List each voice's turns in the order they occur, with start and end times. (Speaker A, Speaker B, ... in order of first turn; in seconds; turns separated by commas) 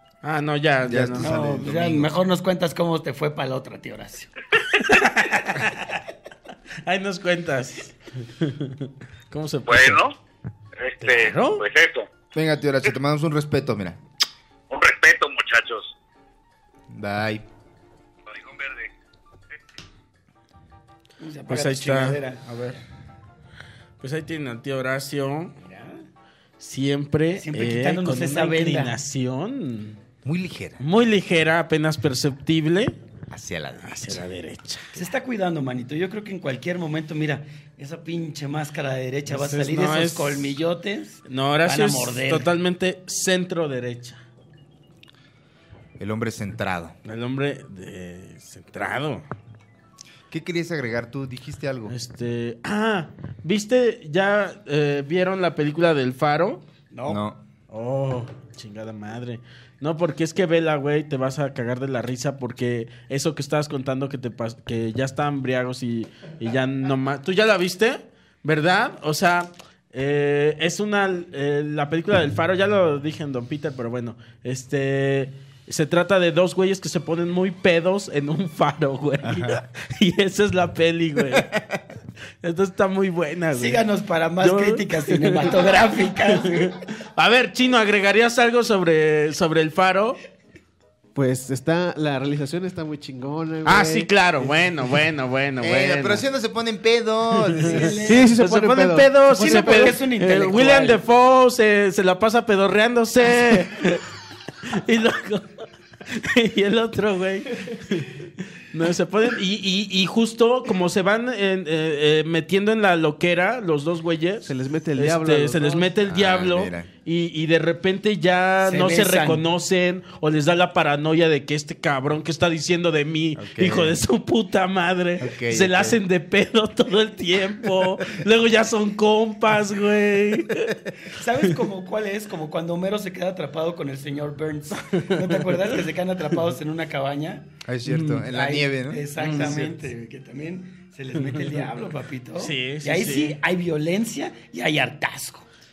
Speaker A: 0.2-1.3, Speaker B: 0.8-2.1, Speaker C: 1.2-4.3, Speaker A: 4.8-6.0, Speaker A: 6.8-10.0, Speaker D: 9.7-10.2, Speaker D: 10.8-12.1, Speaker A: 11.0-11.6, Speaker B: 12.3-14.0, Speaker D: 14.7-15.9, Speaker B: 16.9-17.4, Speaker D: 18.3-18.9, Speaker C: 21.2-22.4, Speaker A: 21.5-22.8, Speaker A: 24.0-25.6, Speaker C: 25.6-26.1, Speaker A: 26.6-30.0, Speaker C: 27.4-28.9, Speaker B: 30.2-30.8, Speaker A: 30.8-33.0, Speaker B: 33.3-34.2, Speaker A: 33.8-35.0, Speaker C: 34.9-42.5, Speaker A: 39.3-40.6, Speaker A: 41.3-44.2, Speaker B: 46.0-47.0, Speaker A: 47.0-49.3, Speaker B: 50.3-52.0, Speaker A: 51.9-56.6, Speaker C: 56.9-57.2, Speaker B: 57.1-57.4, Speaker A: 57.7-81.6, Speaker B: 79.2-79.6, Speaker B: 81.3-81.6, Speaker A: 82.4-83.8, Speaker C: 83.5-86.8, Speaker A: 84.4-90.2, Speaker E: 91.2-95.0, Speaker A: 93.7-96.2, Speaker B: 95.6-98.0, Speaker A: 97.5-104.0, Speaker C: 97.6-98.3, Speaker E: 98.0-100.0, Speaker C: 99.3-101.0, Speaker A: 104.7-130.8, Speaker E: 114.5-115.9, Speaker B: 116.0-116.9, Speaker C: 118.6-119.5, Speaker B: 123.4-124.0, Speaker B: 125.2-126.0, Speaker C: 131.0-145.5, Speaker A: 134.8-135.8, Speaker B: 137.7-139.1, Speaker A: 139.2-139.8, Speaker A: 141.2-141.7, Speaker A: 142.4-143.4